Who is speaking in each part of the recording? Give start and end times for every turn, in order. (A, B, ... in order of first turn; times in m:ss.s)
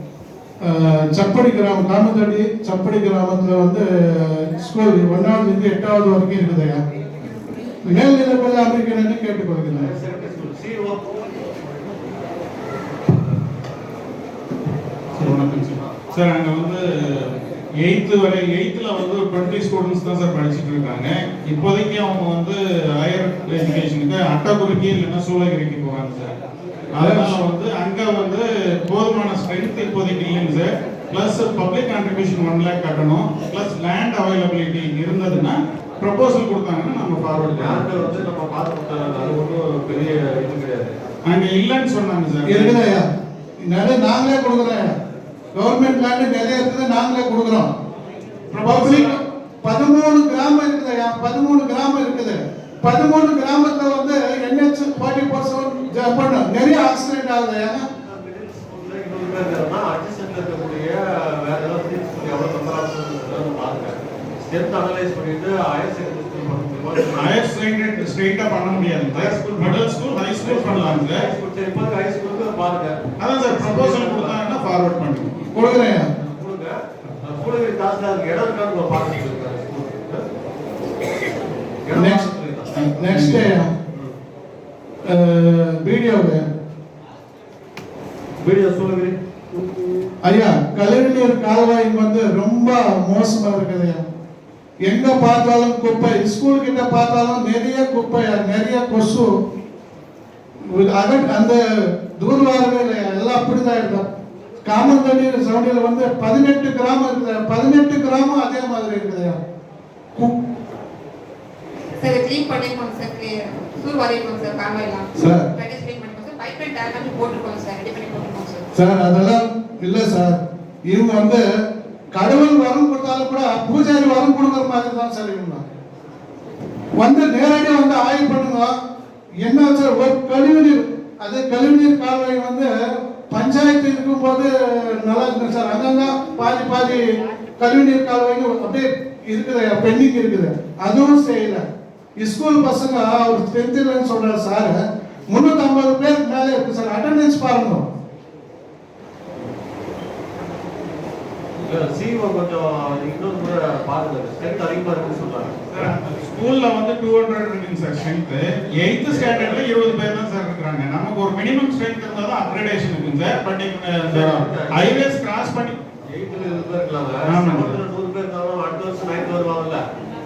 0:00.6-0:06.8 A
0:07.8-0:09.9 A
0:09.7-0:11.1 B
0:15.1-0:26.3 C
0:15.2-0:15.9 B
0:26.9-0:38.2 C
0:27.0-0:27.4 A
0:37.4-0:40.9 B
0:41.2-0:42.8 C
0:42.4-0:43.0 A
0:43.7-0:44.9 A
0:45.6-0:47.7 A
0:48.5-0:49.2 C
0:48.6-0:57.8 A
0:58.0-1:07.4 B
1:07.1-1:11.2 C
1:09.1-1:14.4 B
1:13.2-1:15.5 C
1:15.5-1:16.1 A
1:15.6-1:20.2 B
1:21.8-1:22.7 B
1:21.9-1:22.3 A
1:22.8-1:23.5 C
1:23.0-1:23.7 A
1:25.1-1:26.4 A
1:28.4-1:29.6 B
1:30.2-1:34.0 A
1:34.9-1:39.3 A
1:40.7-1:41.6 A
1:42.2-1:44.0 A
1:44.6-1:49.4 A
1:52.0-1:58.7 D
1:55.2-1:55.5 A
1:58.7-2:01.4 A
2:02.1-2:05.6 A
2:07.0-2:08.7 A
2:09.4-2:12.7 A
2:13.3-2:21.6 A
2:22.2-2:27.8 A
2:31.6-2:35.6 B
2:35.7-2:45.8 C
2:39.1-2:39.7 B
2:44.0-2:45.0 B
2:46.1-2:49.8 B
2:47.2-2:47.8 C